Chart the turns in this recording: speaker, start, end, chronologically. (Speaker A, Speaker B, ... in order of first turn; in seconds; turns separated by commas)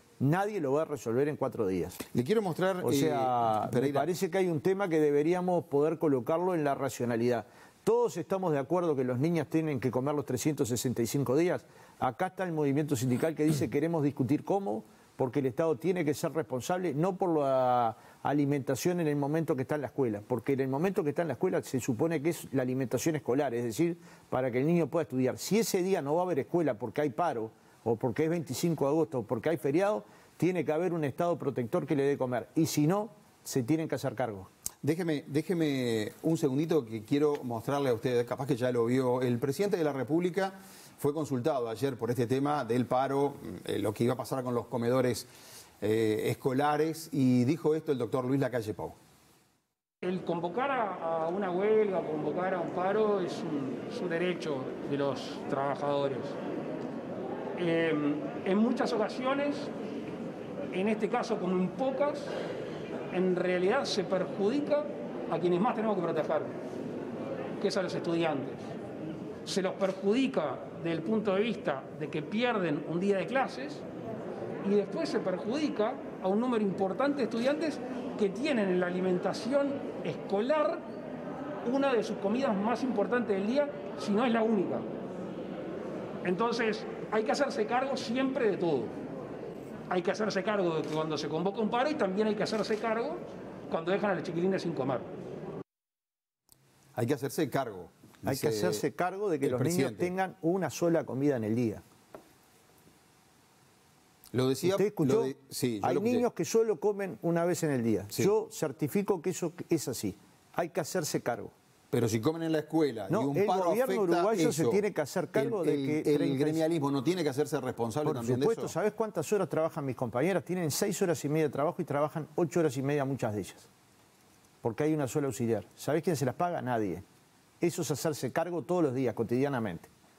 Speaker A: 0.2-2.0, Speaker B: 2.1-4.1, Speaker A: 2.8-34.5, Speaker B: 34.8-45.3, Speaker B: 45.8-49.0, Speaker C: 50.0-56.4, Speaker C: 57.6-59.7, Speaker C: 60.7-62.3, Speaker C: 63.1-66.5, Speaker C: 67.6-68.7, Speaker C: 69.5-73.8, Speaker C: 74.6-80.8, Speaker C: 81.6-84.8, Speaker C: 86.2-89.0, Speaker C: 89.9-95.1, Speaker B: 97.0-98.8, Speaker A: 98.2-101.8, Speaker B: 99.4-100.1, Speaker B: 104.3-106.2, Speaker A: 104.7-111.5, Speaker B: 111.9-114.8, Speaker A: 113.1-116.6, Speaker B: 115.3-118.7, Speaker A: 118.0-123.7, Speaker A: 124.6-127.0, Speaker A: 127.6-129.9